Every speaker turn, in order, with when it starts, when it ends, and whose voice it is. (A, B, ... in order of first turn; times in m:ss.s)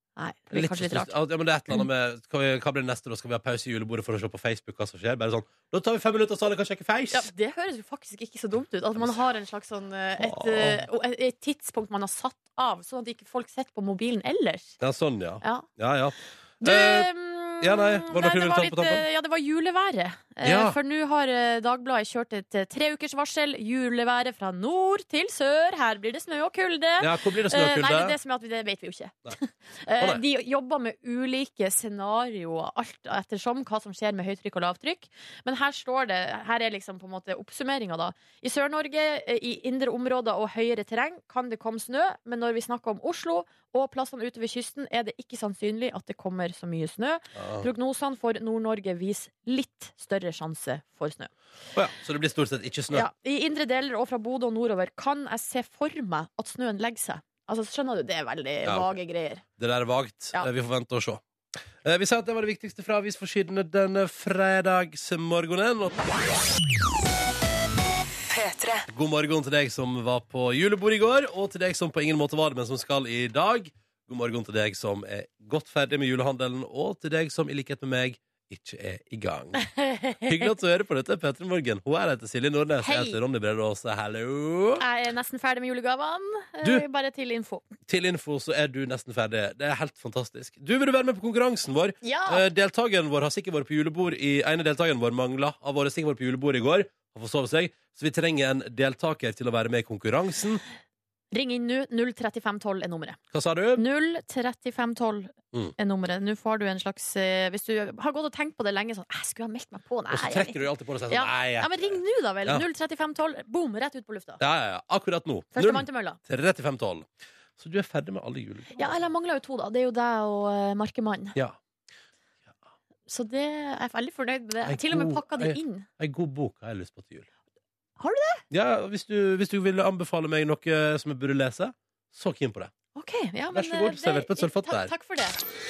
0:00.2-0:01.1 A
0:00.5-0:07.3 B
0:07.1-0:14.8 A
0:10.2-0:10.8 B
0:14.8-0:19.0 B
0:15.4-0:15.7 A
0:16.6-0:51.3 A
0:20.4-0:20.8 B
0:27.0-0:28.2 B
0:47.4-0:47.7 B
0:51.7-0:53.1 B
0:52.9-0:59.4 A
0:58.6-0:59.0 B
0:59.6-1:01.2 B
1:01.8-1:06.1 B
1:08.9-1:19.6 B
1:19.6-1:20.5 A
1:20.2-1:24.8 B
1:22.8-1:23.2 A
1:24.8-1:27.6 A
1:27.9-1:40.6 B
1:32.0-1:32.4 A
1:41.3-1:43.2 A
1:43.3-1:43.8 B
1:43.8-1:54.4 A
1:50.1-1:52.6 B
1:54.4-1:58.9 B
1:55.5-1:56.2 A
1:58.8-2:01.4 A
2:03.1-2:05.9 A
2:04.6-2:07.3 B
2:08.0-2:08.4 A
2:08.5-2:12.7 B
2:12.9-2:15.4 A
2:13.5-2:14.9 B